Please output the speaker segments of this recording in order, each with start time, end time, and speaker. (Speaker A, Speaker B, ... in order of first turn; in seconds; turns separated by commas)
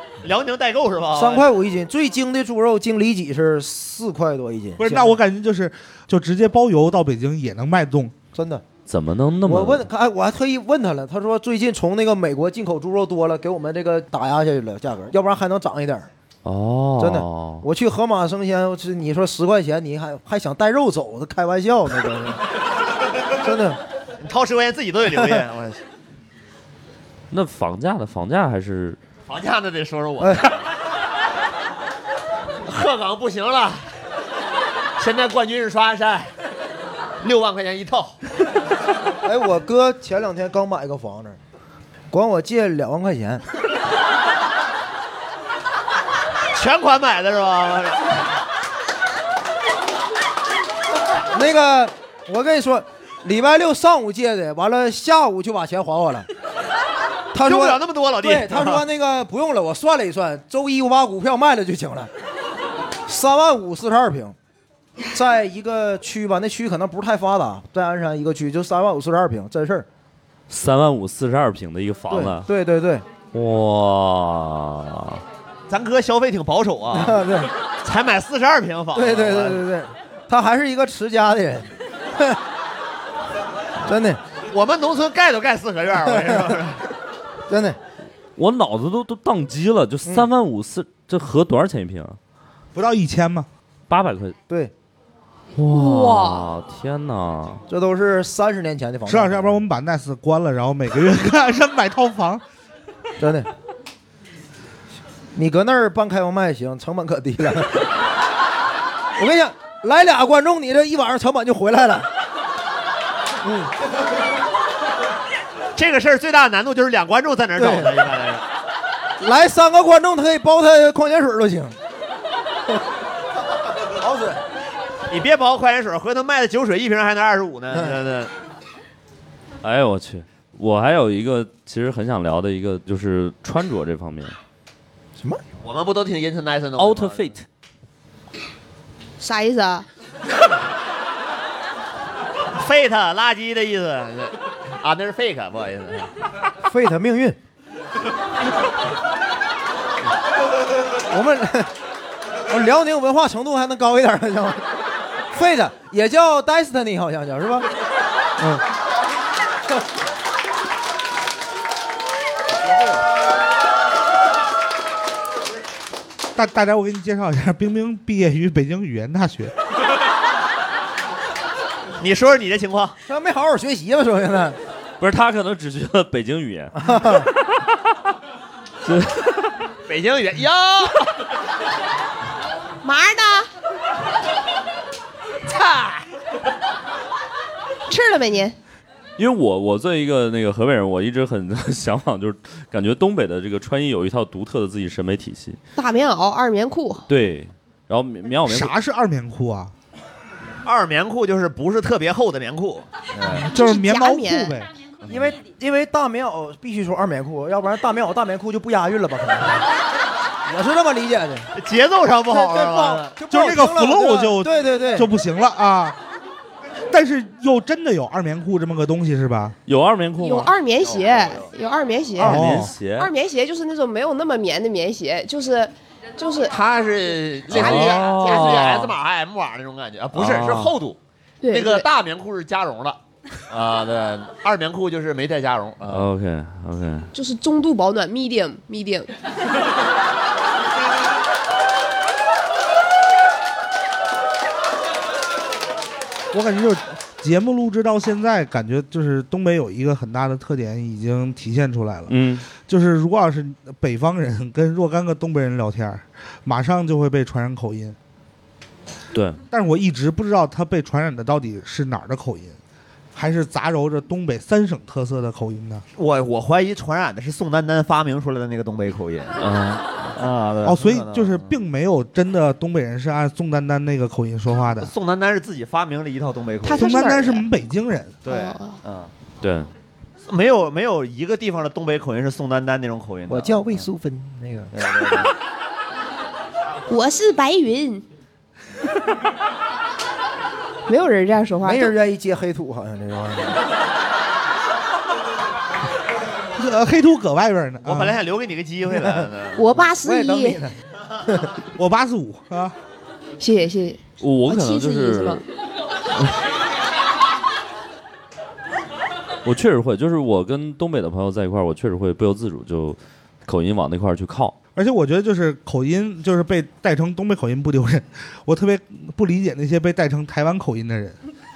Speaker A: 0.2-1.5, Speaker B: 1.1-5.2, Speaker C: 4.8-8.1, Speaker B: 8.3-8.6, Speaker D: 8.9-9.8, Speaker B: 9.4-16.1, Speaker D: 16.4-17.6, Speaker B: 17.0-22.4, Speaker B: 23.3-23.8, Speaker A: 24.2-25.8, Speaker D: 27.3-29.0, Speaker A: 29.3-30.7, Speaker B: 30.2-30.5, Speaker A: 32.6-33.9, Speaker A: 35.0-36.3, Speaker A: 37.2-38.2, Speaker B: 39.2-41.4, Speaker B: 42.1-43.4, Speaker A: 46.5-48.1, Speaker B: 51.3-56.3, Speaker B: 57.3-62.1, Speaker A: 57.4-58.8, Speaker B: 63.0-64.3, Speaker B: 65.1-69.9, Speaker D: 70.5-72.5, Speaker B: 72.1-73.0, Speaker D: 73.3-75.2, Speaker A: 75.7-77.2, Speaker B: 76.9-77.5, Speaker A: 77.8-79.6, Speaker B: 78.9-82.4, Speaker B: 83.8-84.2, Speaker A: 84.5-86.8, Speaker B: 86.0-86.6, Speaker B: 87.5-87.8, Speaker D: 88.3-92.2, Speaker C: 92.7-93.5, Speaker D: 93.9-94.4, Speaker D: 95.5-97.6, Speaker E: 95.7-96.5, Speaker B: 97.7-99.6, Speaker C: 99.1-102.4, Speaker B: 103.2-103.5, Speaker B: 105.3-107.9, Speaker B: 109.2-112.1, Speaker B: 113.4-113.7, Speaker A: 115.8-118.4, Speaker B: 117.5-118.0, Speaker B: 119.2-121.8, Speaker B: 124.0-124.4, Speaker A: 125.1-128.3, Speaker D: 129.6-134.3, Speaker B: 135.2-135.4, Speaker A: 135.6-137.3, Speaker D: 136.8-137.4, Speaker E: 139.2-139.8, Speaker A: 142.5-146.1, Speaker B: 146.6-147.4, Speaker B: 151.1-151.7, Speaker B: 152.5-154.6, Speaker B: 155.3-157.7, Speaker B: 158.4-158.6, Speaker C: 166.3-169.5, Speaker A: 172.0-172.9, Speaker B: 173.1-174.6, Speaker D: 175.0-177.3, Speaker B: 176.8-177.3, Speaker D: 178.8-179.5, Speaker A: 179.9-181.1, Speaker E: 182.8-183.5, Speaker A: 185.4-186.1, Speaker E: 187.9-188.6, Speaker D: 189.2-195.6, Speaker E: 195.8-197.1, Speaker D: 197.1-198.7, Speaker C: 198.4-199.7, Speaker A: 200.6-203.5, Speaker C: 203.4-204.7, Speaker E: 203.5-204.5, Speaker B: 205.1-209.7, Speaker B: 210.4-211.5, Speaker A: 211.6-213.1, Speaker B: 212.3-215.1, Speaker C: 213.3-216.0, Speaker C: 216.9-219.6, Speaker D: 219.7-220.5, Speaker E: 220.2-222.4, Speaker A: 220.8-221.4, Speaker D: 222.2-223.1, Speaker C: 222.2-222.7, Speaker E: 222.9-226.5, Speaker A: 226.5-231.0, Speaker E: 227.5-228.7, Speaker D: 227.5-228.9, Speaker D: 230.1-230.8, Speaker E: 231.4-231.9, Speaker A: 231.5-233.0, Speaker A: 233.5-236.1, Speaker D: 235.9-237.1, Speaker E: 237.1-239.1, Speaker C: 246.3-257.9, Speaker D: 252.1-252.4, Speaker D: 259.1-259.4, Speaker C: 259.5-262.6, Speaker C: 263.1-265.8, Speaker A: 265.9-269.4, Speaker D: 269.4-270.1, Speaker A: 270.1-271.6, Speaker C: 270.6-274.9, Speaker A: 274.8-277.2, Speaker E: 276.6-277.4, Speaker C: 276.7-278.2, Speaker A: 278.2-279.1, Speaker E: 278.3-278.8, Speaker D: 279.4-279.7, Speaker A: 280.3-283.9, Speaker B: 283.3-284.7, Speaker A: 284.7-285.3, Speaker E: 286.9-288.0, Speaker E: 290.9-291.9, Speaker B: 291.6-293.6, Speaker C: 296.6-298.2, Speaker A: 297.8-299.6, Speaker B: 298.9-299.3, Speaker E: 299.6-300.6, Speaker B: 300.0-301.5, Speaker C: 301.8-302.7, Speaker E: 303.4-305.4, Speaker D: 304.2-305.4, Speaker D: 309.4-314.6, Speaker C: 314.8-321.1